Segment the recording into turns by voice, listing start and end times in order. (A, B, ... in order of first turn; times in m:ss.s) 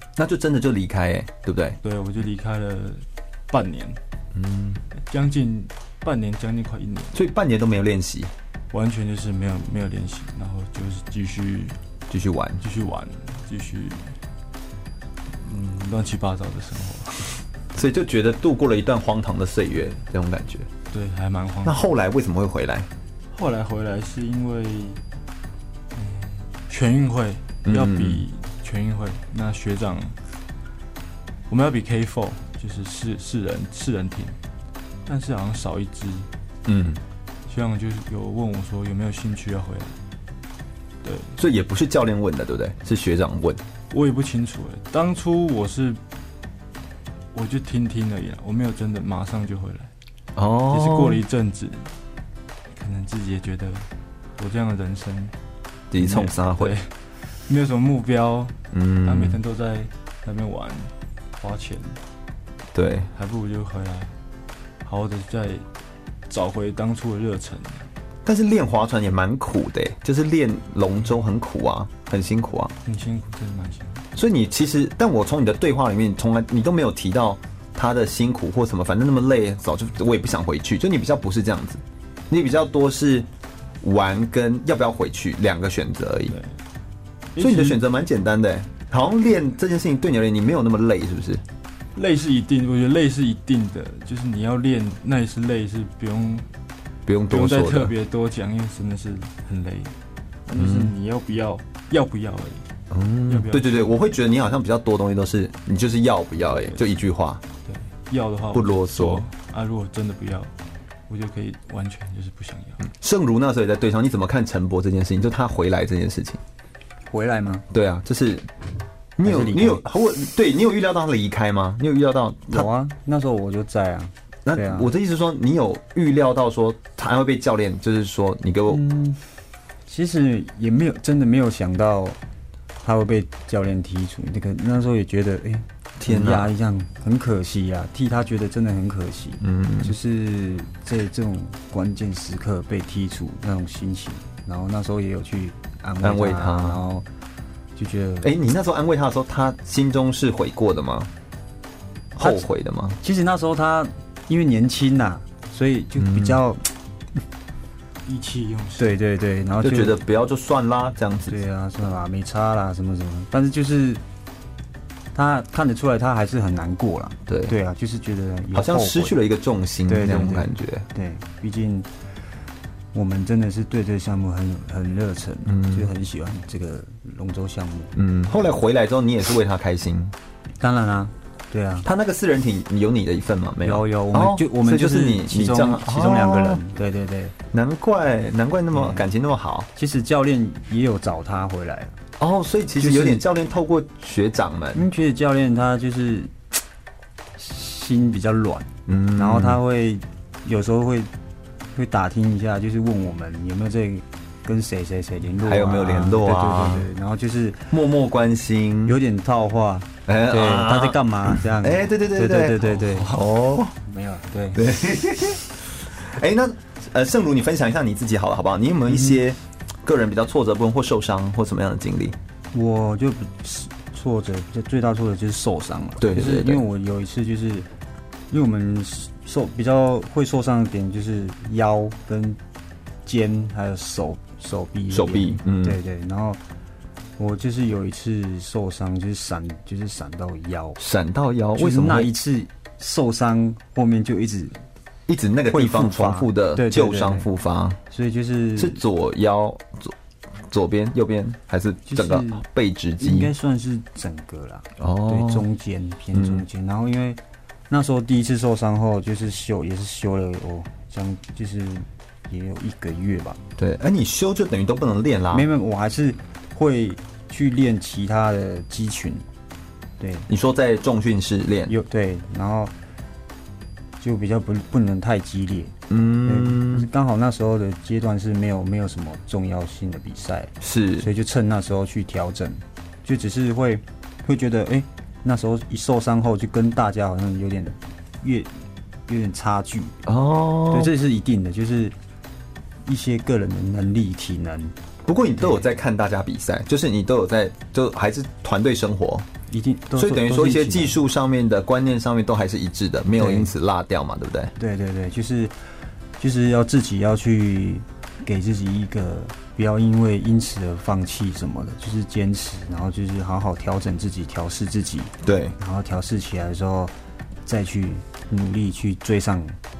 0:00.2-0:01.8 A
0:01.8-0:04.0 B
0:04.4-0:04.8 A
0:05.0-0:07.2 B
0:07.1-0:08.3 A
0:08.7-0:11.8 B
0:12.1-0:12.6 A
0:12.6-0:14.2 B
0:15.3-0:17.4 B
0:17.7-0:20.7 A
0:20.9-0:21.9 B
0:21.6-0:22.9 A
0:23.3-0:25.0 B
0:25.9-0:30.2 B
0:27.7-0:28.2 A
0:31.5-0:34.4 B
0:35.1-0:36.3 B
0:36.7-0:37.0 A
0:37.5-0:40.0 B
0:41.0-0:41.4 B
0:41.4-0:43.6 A
0:43.9-0:46.0 B
0:47.3-0:49.9 B
0:50.4-0:51.2 A
0:50.7-0:52.0 B
0:52.7-0:55.4 B
0:55.9-0:56.7 A
0:56.0-1:02.0 B
0:58.7-0:59.4 A
1:02.7-1:03.1 A
1:03.1-1:04.1 B
1:04.8-1:05.7 B
1:06.3-1:07.9 B
1:08.3-1:12.7 A
1:12.8-1:14.0 B
1:14.2-1:23.3 A
1:23.8-1:26.4 A
1:26.3-1:26.6 B
1:27.4-1:27.8 B
1:27.4-1:31.4 A
1:32.0-1:36.5 B
1:37.1-1:37.9 A
1:37.3-1:39.9 B
1:40.5-1:42.7 B
1:40.6-1:40.9 A
1:42.9-1:47.4 A
1:43.3-1:43.8 B
1:46.4-1:46.8 B
1:47.6-1:50.5 B
1:48.5-1:49.2 A
1:51.1-1:52.8 B
1:53.0-1:56.4 A
1:57.1-1:57.6 C
1:57.7-1:58.5 A
1:59.2-2:02.7 A
1:59.2-1:59.8 C
2:02.5-2:04.9 C
2:04.4-2:08.8 A
2:08.7-2:09.2 C
2:09.9-2:12.2 C
2:12.8-2:27.1 C
2:16.0-2:16.5 A
2:19.4-2:20.0 A
2:26.0-2:26.8 A
2:27.8-2:28.3 C
2:28.2-2:31.1 A
2:32.2-2:33.0 A
2:33.0-2:36.6 C
2:36.0-2:36.4 A
2:38.1-2:39.0 B
2:38.8-2:40.0 C
2:39.6-2:41.4 A
2:41.3-2:44.0 C
2:45.1-2:49.2 C
2:47.3-2:47.5 A
2:48.5-2:50.8 A
2:49.9-2:51.9 C
2:52.9-2:58.0 C
2:55.5-2:55.9 A
2:58.0-3:00.1 A
3:00.6-3:01.9 C
3:01.8-3:06.6 A
3:03.6-3:07.4 C
3:07.5-3:09.7 A
3:08.7-3:09.0 C
3:09.8-3:12.0 C
3:12.2-3:14.8 A
3:12.8-3:13.2 C
3:14.7-3:16.4 C
3:17.4-3:21.1 C
3:18.9-3:19.6 A
3:21.7-3:27.7 C
3:25.4-3:26.9 A
3:27.7-3:29.0 A
3:28.8-3:33.2 C
3:30.1-3:33.8 A
3:33.8-3:34.6 C
3:34.5-3:42.2 A
3:38.9-3:39.2 C
3:42.5-3:47.7 C
3:46.0-3:46.6 A
3:48.3-3:52.4 C
3:53.1-3:56.4 C
3:54.9-3:55.8 A
3:57.2-4:00.8 C
4:00.8-4:02.1 A
4:01.6-4:04.6 C
4:05.1-4:07.8 A
4:05.5-4:07.3 C
4:07.9-4:08.8 C
4:08.6-4:09.9 A
4:10.5-4:13.3 A
4:11.9-4:12.4 C
4:13.0-4:23.4 C
4:14.8-4:15.5 A
4:16.1-4:16.4 A
4:23.6-4:25.5 A
4:25.3-4:29.3 C
4:30.0-4:30.3 C
4:30.3-4:31.8 A
4:31.7-4:32.7 C
4:34.0-4:48.5 C
4:35.9-4:36.9 A
4:40.6-4:41.1 A
4:49.1-4:50.0 C
4:50.1-4:50.9 A
4:50.7-4:52.0 C
4:52.8-4:54.8 C
4:55.1-4:59.3 A
4:55.4-4:55.6 C
4:59.5-5:01.0 C
5:00.0-5:04.5 A
5:03.2-5:03.5 C
5:04.6-5:19.6 C
5:15.2-5:15.6 A